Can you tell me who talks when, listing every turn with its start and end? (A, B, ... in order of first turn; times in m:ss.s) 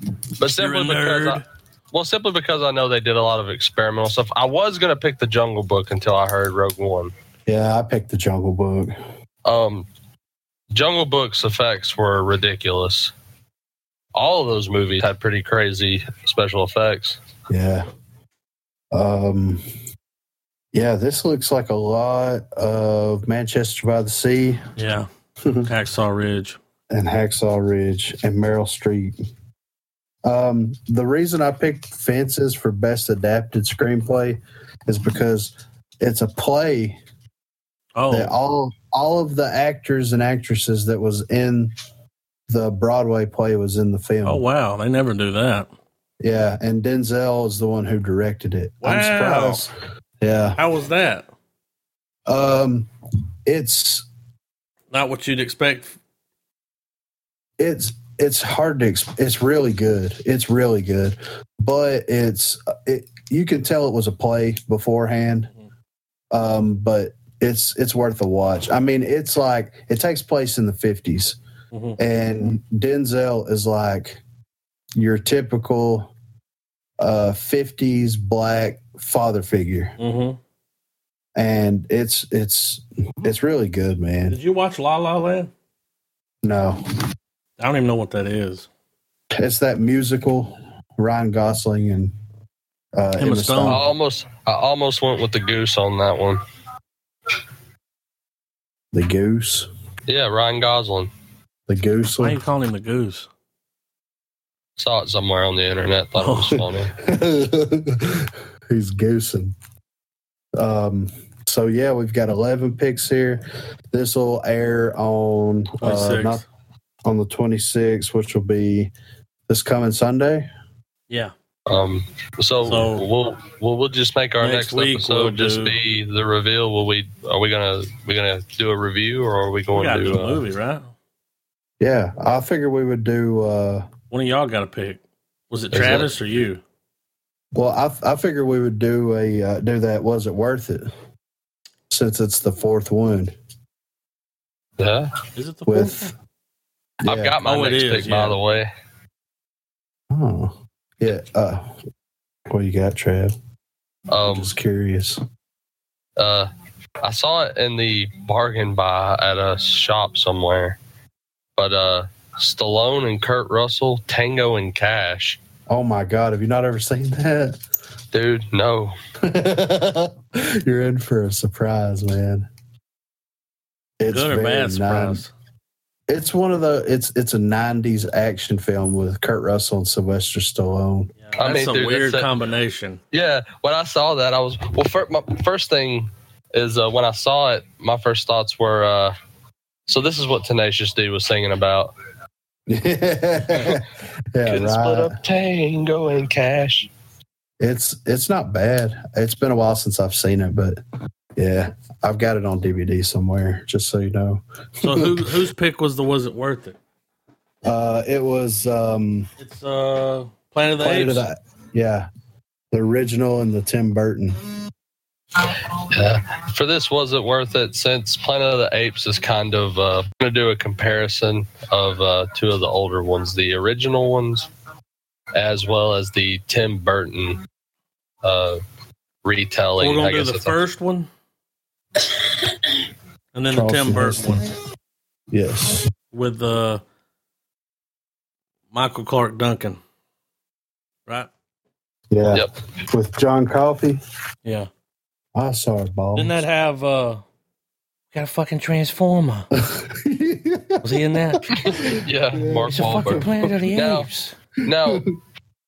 0:00.4-0:07.1 A
0:00.6-0:01.4 B
0:07.5-0:08.9 C
0:09.4-0:09.9 A
0:10.7-0:13.1 A
0:14.1-0:17.2 A
0:17.5-0:17.8 C
0:18.9-0:19.6 C
0:20.7-0:24.7 C
0:24.8-0:25.1 B
0:25.4-0:25.7 C
0:25.6-0:26.6 B
0:26.9-0:29.2 C
0:30.2-0:37.0 C
0:38.0-0:38.3 B
0:38.1-0:41.7 C
0:42.5-0:44.4 C
0:44.2-0:45.7 B
0:46.2-0:50.6 C
0:48.8-0:49.6 B
0:50.6-0:51.3 B
0:52.3-0:52.9 C
0:53.4-0:54.1 C
0:54.9-0:56.0 B
0:57.6-1:05.5 C
1:06.3-1:11.4 C
1:11.7-1:12.0 B
1:12.0-1:14.2 C
1:14.9-1:16.1 C
1:17.0-1:20.0 C
1:20.0-1:20.4 B
1:21.4-1:24.4 C
1:24.3-1:25.5 B
1:26.4-1:26.8 C
1:27.6-1:28.7 B
1:29.3-1:32.1 C
1:32.9-1:33.8 C
1:33.2-1:33.8 B
1:33.6-1:36.4 A
1:38.9-1:39.7 C
1:40.1-1:41.1 A
1:41.7-1:42.4 C
1:42.2-1:43.3 B
1:44.8-1:46.9 A
1:46.2-1:46.6 B
1:47.0-1:49.5 C
1:50.6-1:56.4 C
1:55.8-1:56.4 B
1:57.0-1:58.9 C
1:59.5-2:00.5 C
2:01.7-2:10.4 A
2:02.6-2:03.0 B
2:04.4-2:05.8 B
2:09.7-2:10.9 B
2:11.8-2:13.8 C
2:14.1-2:16.6 B
2:15.7-2:16.1 A
2:17.5-2:20.9 C
2:21.9-2:23.3 C
2:24.8-2:25.1 A
2:25.3-2:26.1 B
2:25.7-2:26.1 C
2:27.0-2:27.4 C
2:27.0-2:28.7 A
2:27.4-2:28.4 B
2:30.1-2:31.7 C
2:32.5-2:33.3 C
2:34.1-2:34.5 A
2:34.2-2:35.2 C
2:36.2-2:36.5 A
2:37.0-2:40.8 A
2:41.6-2:45.4 A
2:45.7-2:47.6 C
2:48.1-2:48.9 A
2:49.2-2:52.5 C
2:54.0-2:55.2 C
2:54.1-2:55.3 B
2:56.1-3:01.1 C
3:01.2-3:03.0 B
3:01.4-3:02.3 A
3:03.1-3:09.1 A
3:09.9-3:11.9 A
3:12.7-3:15.2 C
3:14.4-3:16.9 A
3:17.6-3:20.8 C
3:21.4-3:25.3 C
3:24.8-3:26.8 B
3:27.6-3:29.3 C
3:29.4-3:31.2 B
3:30.8-3:32.1 C
3:32.7-3:34.4 C
3:35.4-3:44.5 A
3:45.3-3:47.4 A
3:48.2-3:48.6 A
3:49.2-3:50.6 A
3:49.8-3:51.1 B
3:53.3-3:54.4 B
3:53.5-3:54.4 C
3:55.3-3:55.9 C
3:56.1-3:56.8 B
3:58.7-3:59.8 B
4:02.1-4:04.0 C
4:05.3-4:06.4 C
4:06.1-4:07.2 B
4:08.1-4:09.5 B
4:09.5-4:13.6 C
4:10.8-4:11.5 B
4:11.6-4:14.1 A
4:12.7-4:14.3 B
4:14.6-4:15.0 A
4:14.7-4:15.0 C